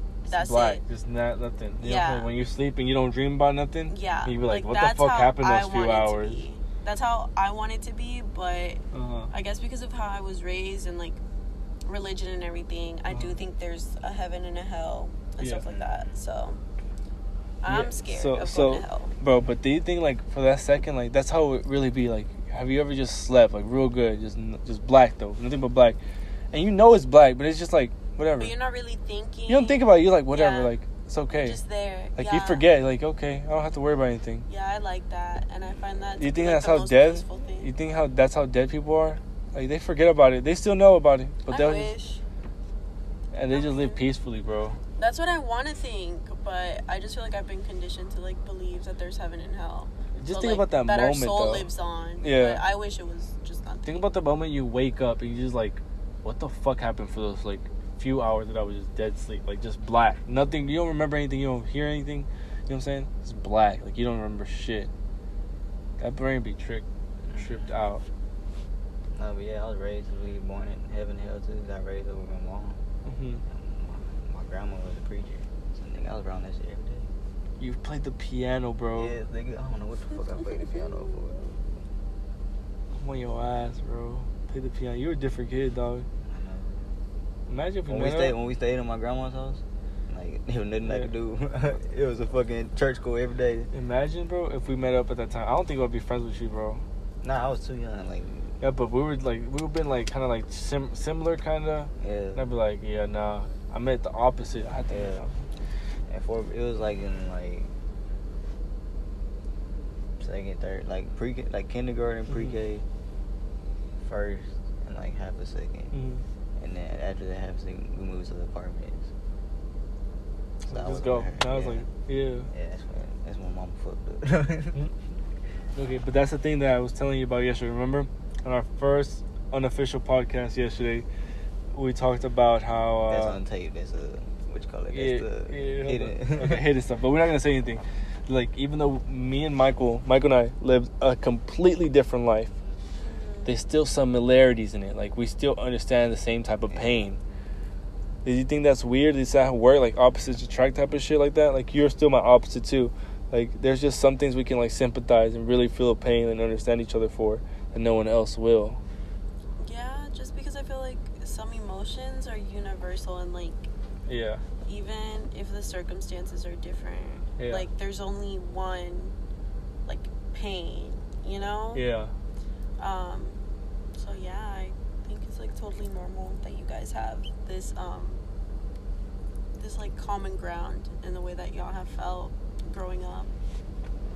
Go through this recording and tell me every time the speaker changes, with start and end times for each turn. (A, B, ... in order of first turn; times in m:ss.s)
0:00.3-0:00.8 A
0:00.3-0:06.4 B
0:01.8-0:02.3 A
0:03.9-0:11.2 A
0:08.9-0:09.3 B
0:11.9-0:16.6 A
0:13.1-0:13.4 B
0:15.4-0:15.7 B
0:17.6-0:19.1 A
0:17.7-0:26.0 B
0:26.5-0:28.5 B
0:28.4-0:30.7 A
0:29.5-0:31.6 B
0:31.4-0:32.6 A
0:32.2-0:34.5 B
0:34.5-0:37.7 A
0:36.2-0:41.9 B
0:41.5-0:42.2 A
0:43.3-0:44.8 B
0:43.5-0:44.0 A
0:45.0-0:54.0 A
0:50.2-0:51.7 B
0:52.2-0:52.6 B
0:53.8-1:04.9 B
1:06.0-1:08.0 B
1:07.3-1:07.7 C
1:09.1-1:12.8 C
1:13.0-1:13.4 B
1:13.5-1:17.1 C
1:17.6-1:19.1 B
1:19.0-1:21.8 C
1:20.6-1:20.9 A
1:23.0-1:26.1 B
1:26.2-1:26.8 C
1:27.5-1:28.3 B
1:27.9-1:33.7 C
1:30.8-1:31.1 B
1:33.7-1:36.8 B
1:37.2-1:38.6 C
1:38.6-1:45.4 B
1:42.0-1:42.4 C
1:44.9-1:45.3 C
1:46.1-1:47.7 C
1:50.2-1:52.8 C
1:52.3-1:52.6 B
1:54.0-1:56.0 C
1:55.9-1:56.2 B
1:56.6-1:59.1 C
2:00.6-2:02.5 B
2:00.7-2:01.9 C
2:02.5-2:04.8 C
2:05.8-2:11.1 B
2:11.7-2:13.4 B
2:13.1-2:16.6 C
2:14.9-2:22.6 B
2:23.0-2:23.5 A
2:23.4-2:27.2 B
2:26.7-2:27.1 C
2:28.2-2:38.8 B
2:39.6-2:43.7 A
2:44.1-2:44.4 B
2:44.6-2:49.2 A
2:47.4-2:47.7 B
2:49.9-2:51.8 A
2:51.7-2:52.1 B
2:52.8-2:53.4 A
2:54.0-2:58.2 A
2:59.5-3:03.3 A